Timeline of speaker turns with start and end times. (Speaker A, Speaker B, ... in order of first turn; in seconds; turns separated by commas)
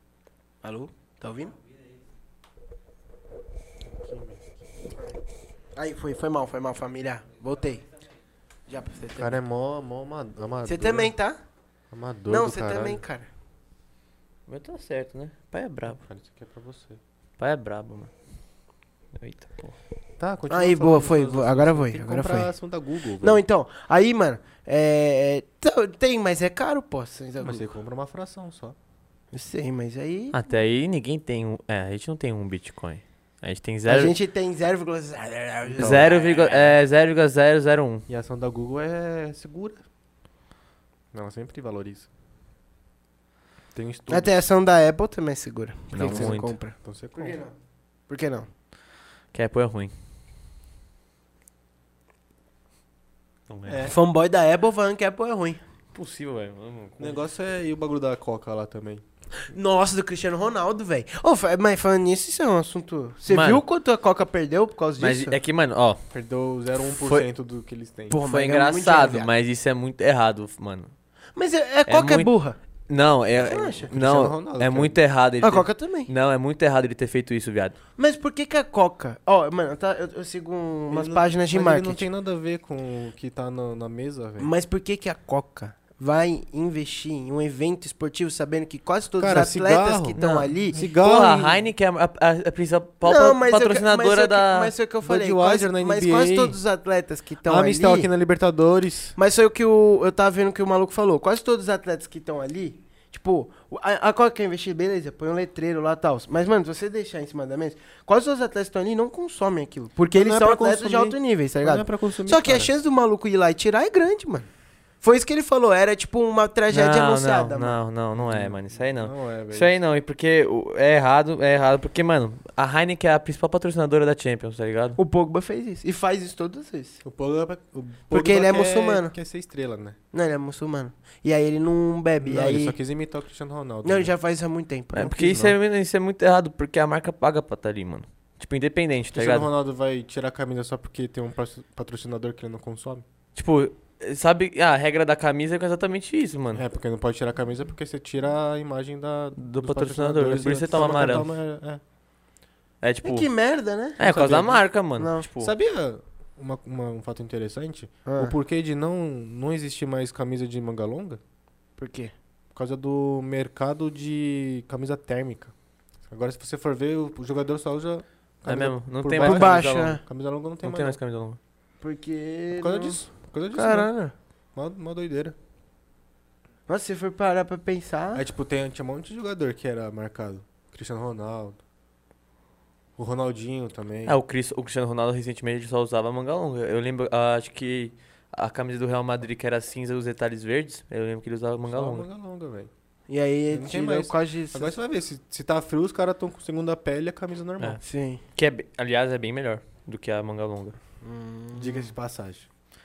Speaker A: 0.6-1.6, Speaker B: 3.9-4.5, Speaker A: 5.8-7.8, Speaker A: 8.7-9.4, Speaker B: 9.2-11.1, Speaker A: 10.7-11.4, Speaker B: 11.9-13.0, Speaker A: 12.3-13.3, Speaker C: 14.5-16.0, Speaker B: 16.0-17.0, Speaker C: 17.4-18.1, Speaker C: 19.2-19.8, Speaker B: 20.2-23.4, Speaker A: 20.5-22.5, Speaker A: 23.2-27.7, Speaker B: 27.4-28.8, Speaker A: 29.3-30.4, Speaker C: 30.3-34.1, Speaker A: 33.9-36.8, Speaker B: 35.7-36.1, Speaker C: 35.8-38.0, Speaker B: 38.1-39.8, Speaker B: 41.1-42.1, Speaker B: 43.7-44.4, Speaker A: 44.1-47.5, Speaker C: 45.9-46.5, Speaker B: 46.0-47.4, Speaker A: 48.1-48.5, Speaker C: 49.3-49.9, Speaker C: 53.5-53.9, Speaker B: 53.7-54.0, Speaker A: 53.9-55.6, Speaker C: 55.9-57.2, Speaker B: 57.0-59.0, Speaker A: 59.5-65.4, Speaker C: 63.3-63.6, Speaker C: 65.0-66.0, Speaker B: 66.1-68.2, Speaker A: 68.1-69.3, Speaker C: 68.2-70.9, Speaker A: 71.4-72.6, Speaker C: 71.9-72.3, Speaker C: 72.9-77.8, Speaker A: 73.4-73.9, Speaker B: 73.9-75.0, Speaker A: 75.4-76.1, Speaker A: 78.0-82.0, Speaker B: 80.9-84.5, Speaker A: 84.4-90.8, Speaker B: 89.2-91.6, Speaker C: 90.2-94.7, Speaker A: 93.0-98.1, Speaker B: 95.0-96.6, Speaker B: 97.5-99.2, Speaker A: 99.2-114.5, Speaker B: 110.1-112.7, Speaker A: 115.0-117.8, Speaker C: 116.7-125.0, Speaker B: 118.2-119.8, Speaker A: 125.0-127.0, Speaker B: 127.0-130.0, Speaker A: 128.1-129.1, Speaker A: 130.1-132.8, Speaker B: 132.2-134.1, Speaker A: 133.8-135.6, Speaker C: 134.9-139.5, Speaker B: 139.1-143.1, Speaker C: 143.3-146.6, Speaker B: 146.5-151.8, Speaker C: 149.4-151.3, Speaker C: 152.8-153.3, Speaker A: 153.0-154.0, Speaker C: 154.0-155.5, Speaker B: 154.0-154.6, Speaker A: 155.0-155.3, Speaker B: 155.4-161.2, Speaker A: 158.1-158.3, Speaker A: 161.8-162.1, Speaker B: 162.5-165.5, Speaker B: 166.1-171.0, Speaker C: 168.4-170.0, Speaker A: 169.1-170.0, Speaker C: 170.6-171.4, Speaker A: 171.8-174.1, Speaker B: 172.6-173.9, Speaker B: 174.6-175.3, Speaker A: 176.7-178.2, Speaker B: 178.2-181.6, Speaker B: 183.0-184.2, Speaker C: 184.1-192.1, Speaker B: 191.7-192.7, Speaker A: 193.1-194.8, Speaker B: 193.5-197.8, Speaker A: 197.8-198.2, Speaker C: 198.4-200.8, Speaker A: 201.0-201.9, Speaker B: 201.5-202.5